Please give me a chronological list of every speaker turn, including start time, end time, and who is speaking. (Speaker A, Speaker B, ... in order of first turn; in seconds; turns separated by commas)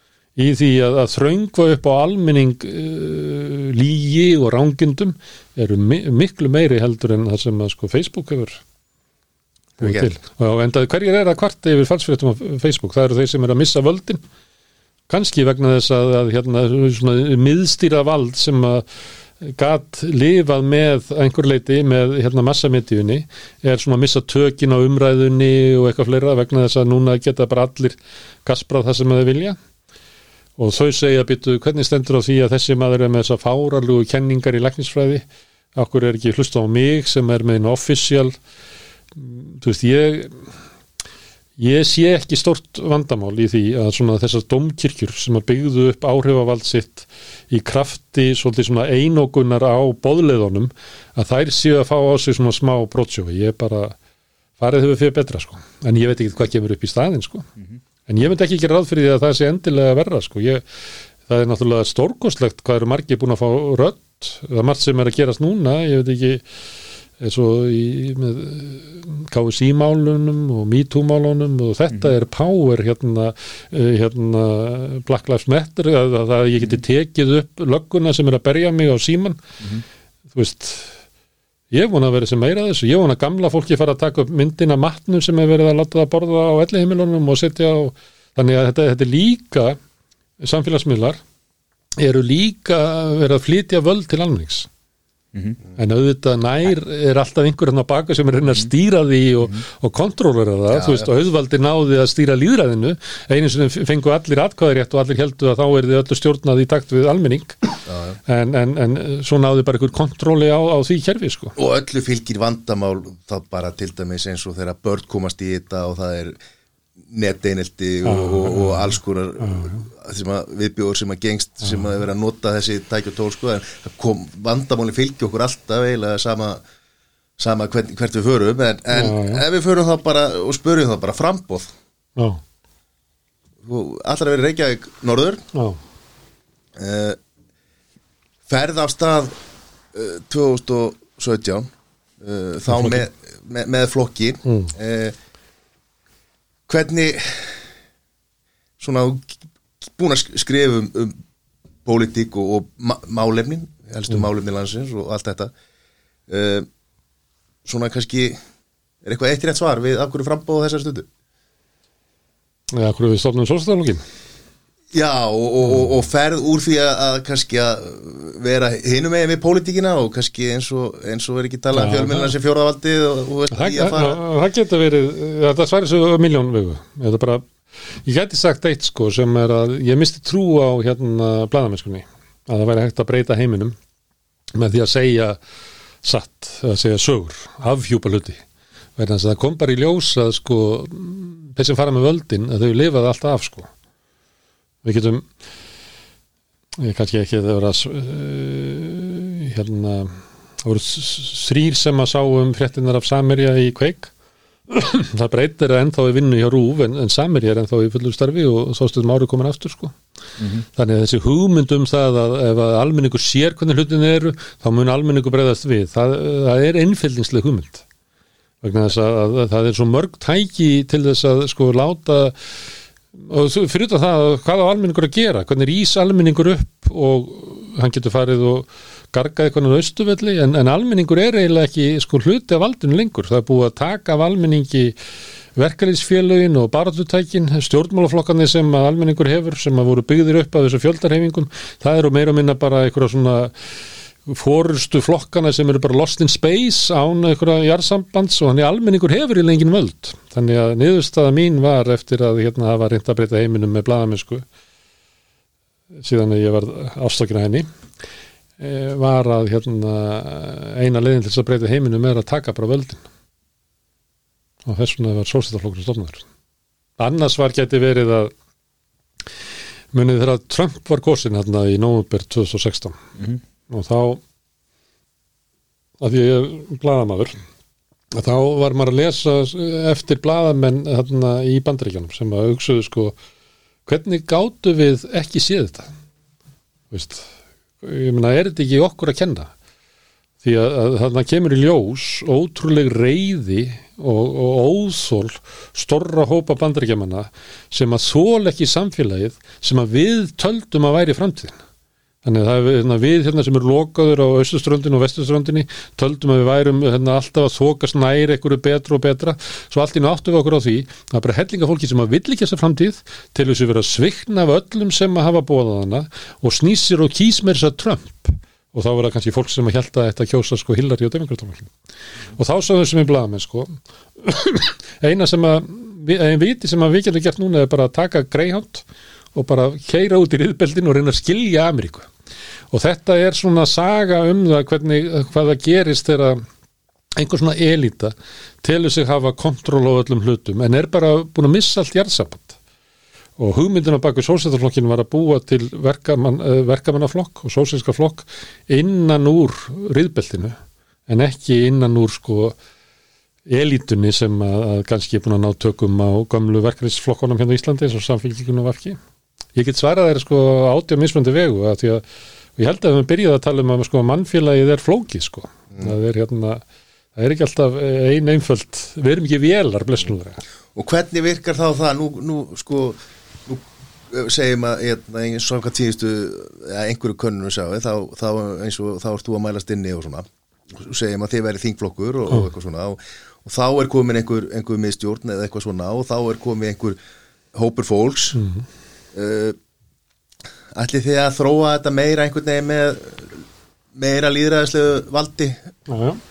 Speaker A: 0.3-8.6, Speaker B: 9.8-10.1, Speaker A: 9.8-14.2, Speaker A: 15.1-18.8, Speaker A: 19.4-29.6, Speaker A: 30.6-38.4, Speaker A: 39.1-40.4, Speaker A: 41.6-54.0, Speaker A: 54.6-57.5, Speaker A: 58.1-60.6, Speaker A: 61.3-66.4, Speaker A: 67.2-79.4, Speaker A: 80.3-81.0, Speaker A: 81.7-89.8, Speaker A: 90.4-91.2, Speaker A: 92.0-94.7, Speaker A: 95.8-107.7, Speaker B: 100.7-101.1, Speaker B: 107.9-108.2, Speaker A: 108.2-111.5, Speaker B: 111.6-116.4, Speaker B: 117.1-126.6, Speaker A: 118.0-119.8, Speaker B: 127.4-131.7, Speaker A: 128.9-129.4, Speaker A: 132.2-132.4, Speaker B: 133.6-135.4, Speaker A: 135.5-135.8, Speaker B: 136.8-137.2, Speaker B: 138.5-139.3, Speaker B: 139.9-141.7, Speaker B: 142.2-145.2, Speaker A: 142.7-143.0, Speaker A: 144.4-144.7, Speaker B: 146.7-147.6, Speaker B: 148.8-149.3, Speaker B: 149.9-151.2, Speaker B: 151.8-155.5, Speaker B: 156.3-156.7, Speaker B: 157.6-158.4, Speaker B: 159.0-161.1, Speaker A: 162.7-164.0, Speaker B: 164.9-174.2, Speaker A: 171.7-172.3, Speaker A: 173.5-177.4, Speaker A: 178.0-183.8, Speaker A: 184.5-185.4, Speaker A: 186.0-188.4, Speaker A: 189.0-193.7, Speaker A: 194.8-195.2, Speaker A: 196.8-204.1, Speaker A: 204.7-209.9, Speaker A: 210.8-217.8, Speaker A: 218.6-222.3, Speaker A: 223.2-234.9, Speaker A: 235.6-243.5, Speaker A: 244.2-254.4, Speaker A: 256.0-257.7, Speaker A: 258.6-263.0, Speaker A: 264.6-266.2, Speaker A: 267.0-268.3, Speaker A: 269.9-273.0, Speaker A: 273.7-274.2, Speaker A: 276.0-277.3, Speaker A: 278.1-283.1, Speaker A: 283.9-285.9, Speaker A: 286.9-287.3, Speaker A: 287.8-289.5, Speaker A: 290.4-301.5, Speaker A: 302.2-321.7, Speaker A: 322.3-332.1, Speaker A: 332.7-336.4, Speaker A: 337.2-342.6, Speaker A: 343.4-352.6, Speaker A: 353.5-359.0, Speaker A: 359.6-362.0, Speaker A: 362.6-366.6, Speaker A: 367.1-370.4, Speaker B: 370.7-387.0, Speaker B: 387.5-388.4, Speaker A: 388.3-388.6, Speaker B: 389.1-389.6, Speaker B: 390.7-393.4, Speaker B: 393.9-395.6, Speaker A: 395.9-396.2